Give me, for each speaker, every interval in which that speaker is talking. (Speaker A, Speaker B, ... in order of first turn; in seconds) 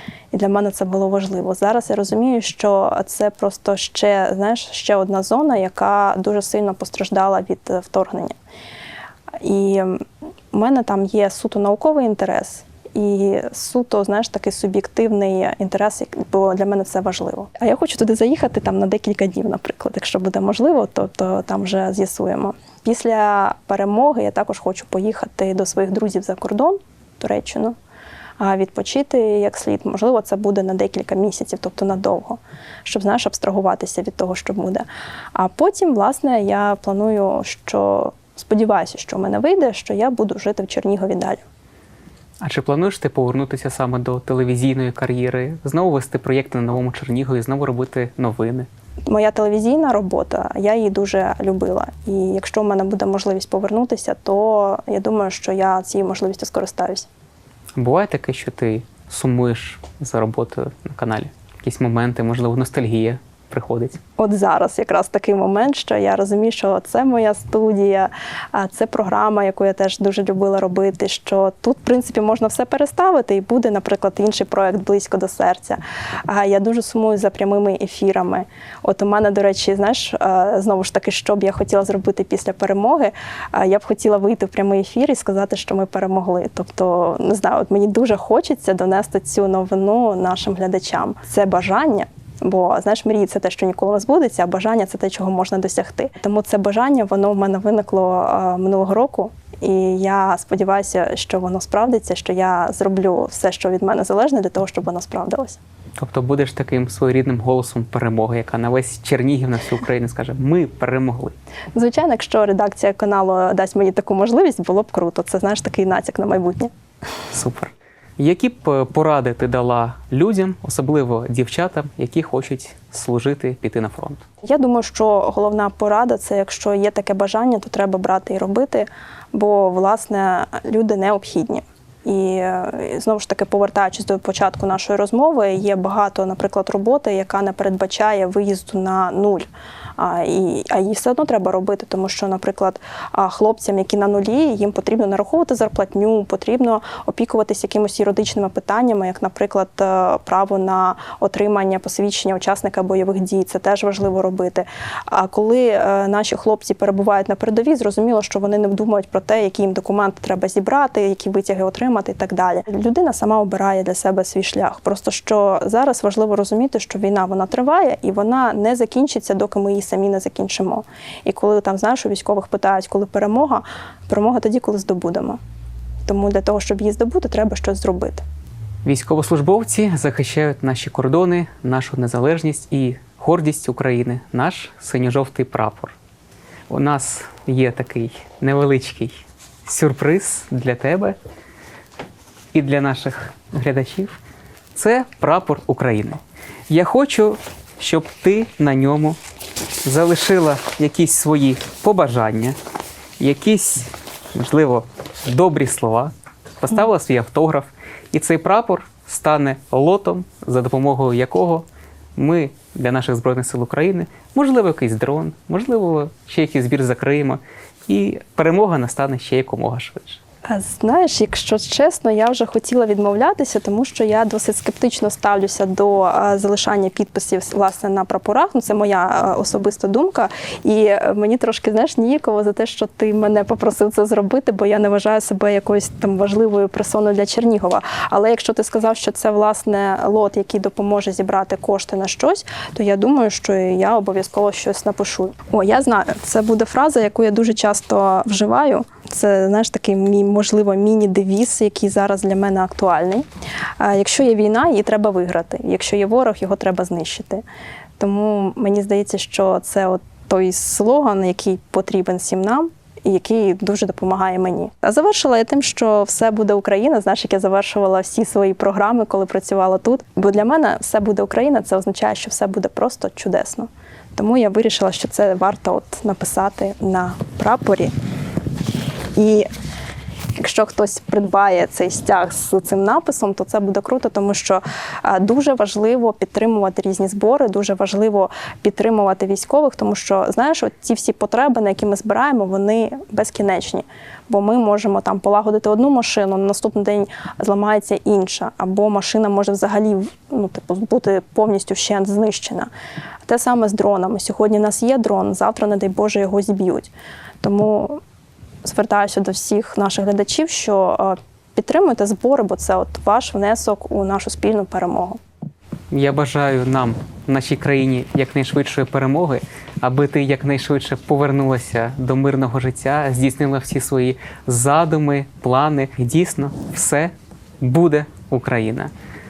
Speaker A: 0.3-8.4, 9.4-27.8, 28.4-41.4, 49.1-57.1, 64.2-105.6, 111.8-116.7, 124.4-175.4, 176.1-178.2, 220.5-253.2, 253.8-257.4, 258.0-277.9, 279.1-279.5, 280.4-302.7, 303.3-306.9, 307.4-308.0, 308.6-315.2
Speaker B: 42.4-48.7, 57.8-64.0, 106.0-111.3, 117.3-124.2, 178.8-185.9, 186.7-191.2, 192.5-194.2, 194.8-199.2, 199.8-202.6, 203.2-211.6, 212.2-220.2, 315.9-328.9